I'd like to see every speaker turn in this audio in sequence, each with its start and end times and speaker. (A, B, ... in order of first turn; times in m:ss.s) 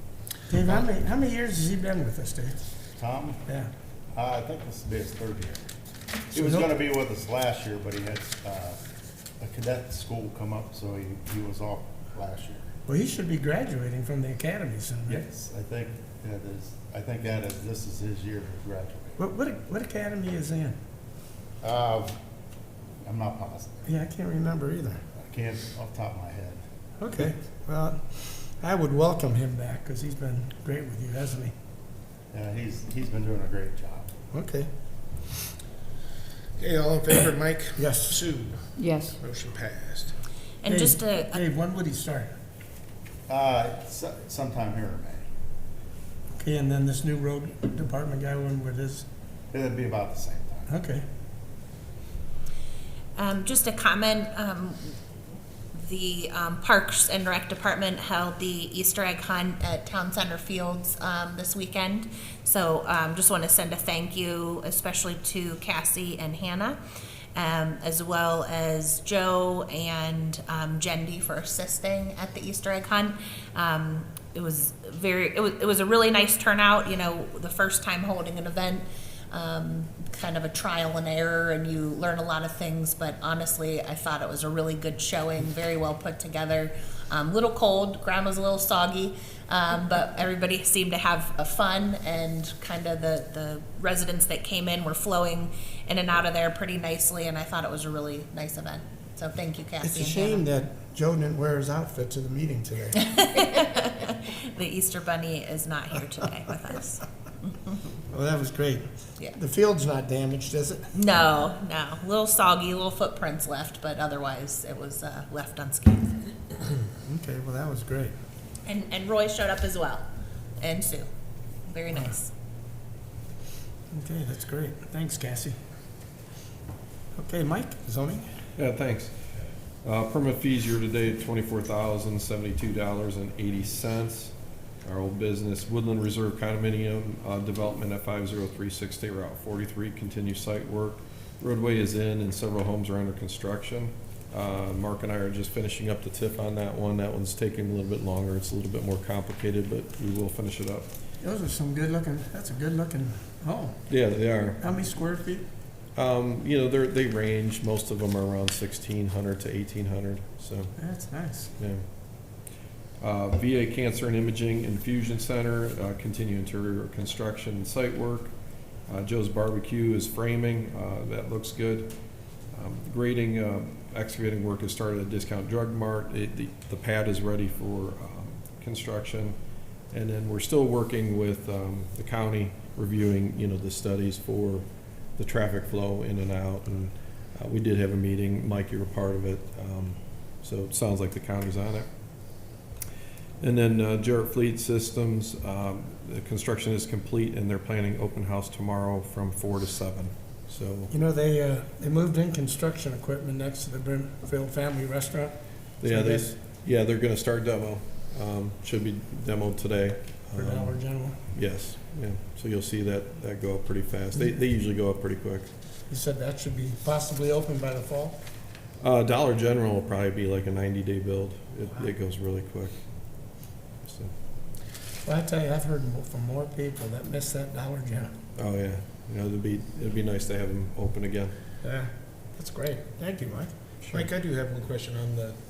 0:00.5-0:02.6 A
0:02.9-0:03.4 B
0:04.1-0:05.7 B
0:06.3-0:08.8 B
0:06.3-0:06.7 A
0:09.4-0:12.7 B
0:12.9-0:15.2 A
0:15.1-0:19.2 B
0:19.2-0:20.8 A
0:21.6-0:22.2 B
0:23.0-0:23.8 B
0:23.8-0:25.0 A
0:25.1-0:26.6 B
0:27.0-0:31.5 A
0:32.3-0:34.1 B
0:34.3-0:34.7 A
0:36.6-0:40.1 C
0:37.8-0:38.2 A
0:40.6-0:41.4 D
0:40.6-0:42.3 A
0:43.3-0:45.2 B
0:46.4-0:49.1 A
0:49.5-0:50.7 B
0:50.7-0:51.0 A
0:53.2-0:55.0 D
0:55.7-1:06.8 D
1:07.3-1:40.4 D
1:39.8-1:43.0 A
1:43.0-1:47.0 D
1:48.1-1:50.9 A
1:50.9-1:56.3 D
1:57.0-1:58.1 A
1:58.6-2:00.0 D
2:00.6-2:01.1 D
2:01.7-2:02.3 D
2:03.9-2:05.6 A
2:07.1-2:08.3 A
2:08.6-2:09.1 E
2:09.8-2:30.9 E
2:31.2-2:33.9 A
2:33.9-2:34.6 E
2:34.6-2:35.4 A
2:35.9-2:40.8 E
2:40.8-2:41.5 A
2:41.6-2:41.8 E
2:43.0-2:48.3 E
2:48.9-2:51.9 E
2:52.5-2:59.4 E
2:59.9-3:04.6 E
3:05.2-3:11.9 E
3:13.4-3:20.9 E
3:20.9-3:26.3 A
3:25.8-3:35.5 E
3:30.4-3:31.2 A
3:35.9-3:38.2 A
3:38.8-3:44.1 E
3:45.0-3:48.1 A
3:48.4-3:51.3 E
3:51.6-3:53.5 A
3:53.9-3:55.4 C